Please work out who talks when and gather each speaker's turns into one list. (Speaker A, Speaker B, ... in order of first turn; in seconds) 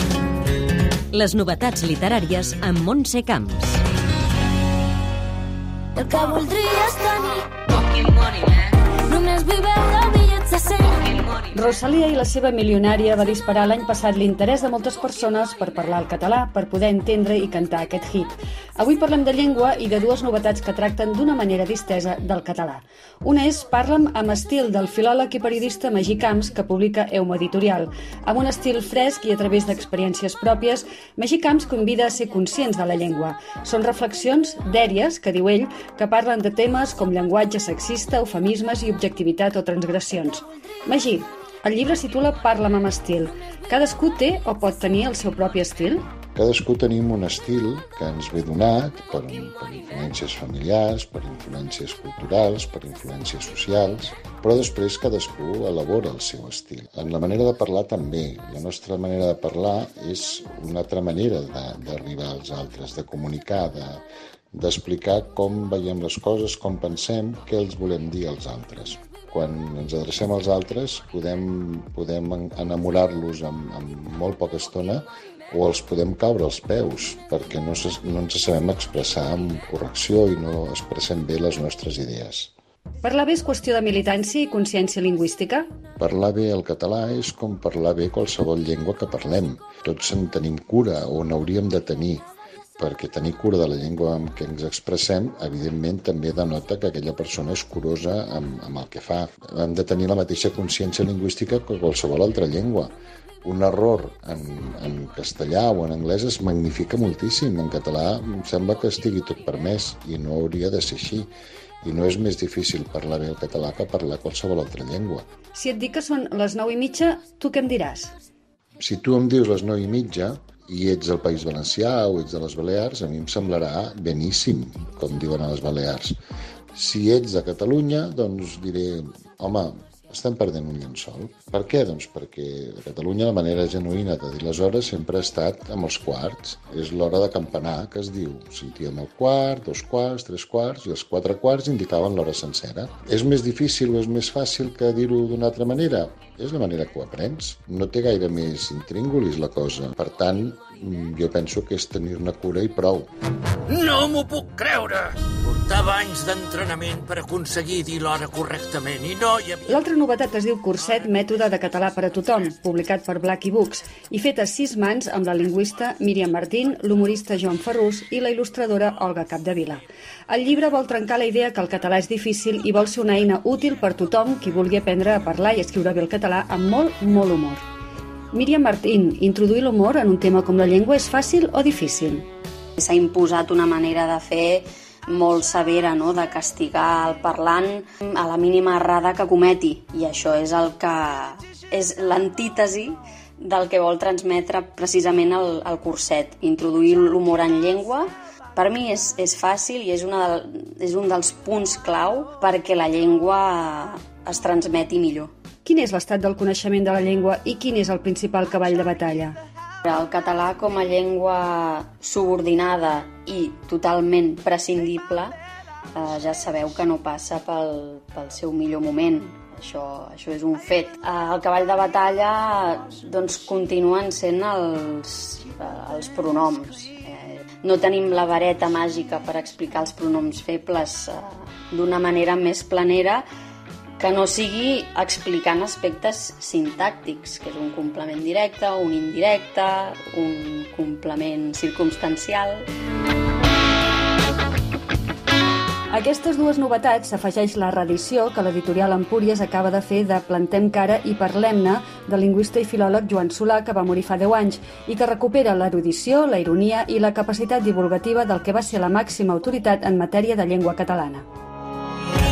Speaker A: 1.1-3.8
Speaker B: 6.0-11.4
Speaker C: 11.5-46.1, 83.0-85.7, 115.5-118.1, 159.7-177.6, 178.3-182.3, 205.7-209.4, 245.9-261.3
Speaker D: 46.3-82.5, 86.0-92.3, 92.8-102.9, 103.4-111.3, 111.8-115.3, 118.8-126.2, 126.7-153.1
Speaker E: 153.7-159.6
Speaker F: 182.8-205.3, 209.8-215.3, 215.9-233.2, 234.0-242.7